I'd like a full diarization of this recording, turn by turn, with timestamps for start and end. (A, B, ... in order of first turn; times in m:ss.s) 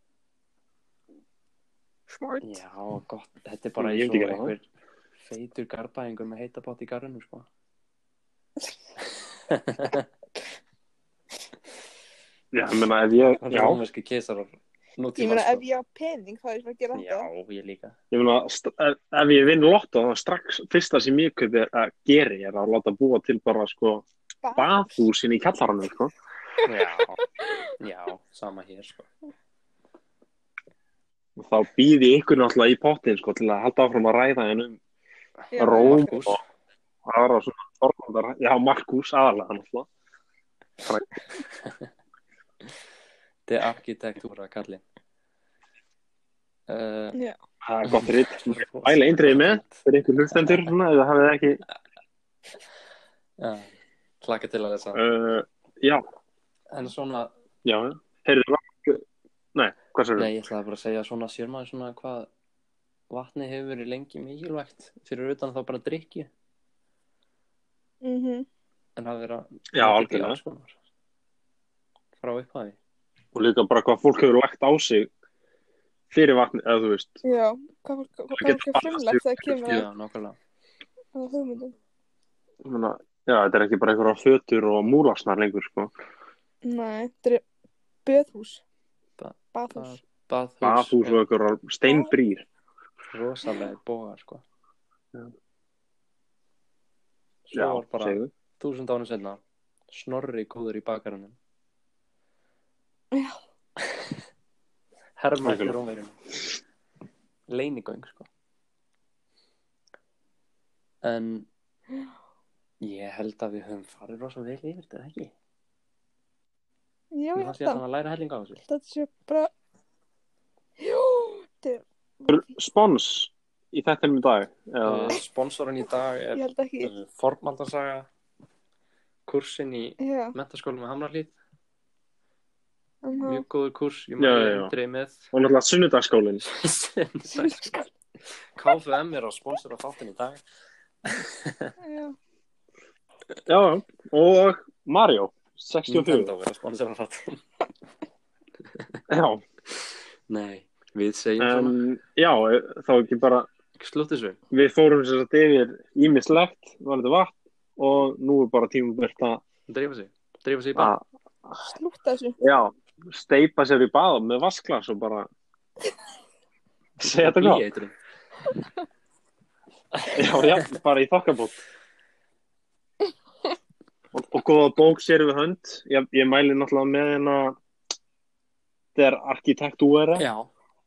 0:02.1-0:02.6 A
0:02.4-0:04.7 B
0:03.8-0:04.6 C
0:05.2-0:07.5 B
0:09.5-0:10.1 B
0:12.5-0:13.8 C
0:13.4-0:15.7 B
0:15.2-0:17.3 A
0:16.9-0:18.0 B
0:18.1-0:24.0 C
0:24.4-0:25.1 A
0:24.6-0:26.1 C
0:26.7-0:27.2 B
0:27.8-0:29.1 B
0:31.4-0:34.8 C
0:35.5-0:36.0 A
0:35.6-0:36.4 C
0:35.6-0:36.4 B
0:37.1-0:39.9 C
0:41.4-0:41.9 B
0:43.5-0:44.8 B
0:46.7-0:47.2 B
0:47.6-0:51.6 C
0:47.8-0:50.7 B
0:53.4-0:53.7 B
0:54.2-0:55.0 B
0:55.0-0:56.0 C
0:56.7-0:57.3 B
0:57.6-0:59.0 C
0:59.6-1:00.3 C
1:00.2-1:02.3 B
1:03.1-1:06.3 B
1:08.0-1:08.5 A
1:09.0-1:10.8 B
1:09.7-1:10.4 C
1:12.2-1:12.8 B
1:13.3-1:15.1 C
1:16.1-1:17.2 C
1:17.2-1:19.9 A
1:18.4-1:19.8 C
1:19.7-1:20.4 B
1:21.2-1:21.8 A
1:22.6-1:25.9 C
1:26.6-1:27.4 A
1:28.0-1:28.6 A
1:29.2-1:31.2 B
1:29.5-1:30.0 A
1:30.6-1:32.4 C
1:31.9-1:32.1 A
1:33.1-1:34.4 B
1:37.5-1:41.4 B
1:37.5-1:38.3 C
1:45.2-1:46.2 B
1:45.4-1:45.8 C
1:47.5-1:48.3 B
1:51.0-1:51.5 B
1:52.8-1:55.3 B
1:57.1-1:57.8 A
1:57.4-1:58.6 B
1:58.7-1:59.5 A
2:00.8-2:02.5 A
2:02.3-2:05.2 C
2:04.8-2:08.1 B
2:06.3-2:06.9 A
2:09.3-2:11.4 B
2:10.0-2:10.4 A
2:13.0-2:13.4 A
2:13.2-2:15.3 B
2:14.2-2:14.7 C
2:15.3-2:16.4 C
2:16.5-2:17.8 B
2:17.4-2:17.7 A
2:18.6-2:20.4 B
2:21.0-2:21.7 B
2:21.8-2:22.2 A
2:23.5-2:26.3 C
2:25.9-2:27.4 B
2:28.8-2:29.0 B
2:29.1-2:29.4 C
2:30.3-2:31.8 B
2:31.4-2:33.5 C
2:33.8-2:34.4 B
2:34.5-2:39.4 C
2:39.7-2:41.0 B
2:40.8-2:41.0 C
2:41.7-2:42.4 A
2:42.4-2:45.3 C
2:47.0-2:48.0 B
2:47.0-2:47.6 C
2:50.0-2:50.6 B
2:50.1-2:51.6 C
2:54.1-2:57.6 C
2:59.0-3:00.3 C
3:00.2-3:00.5 B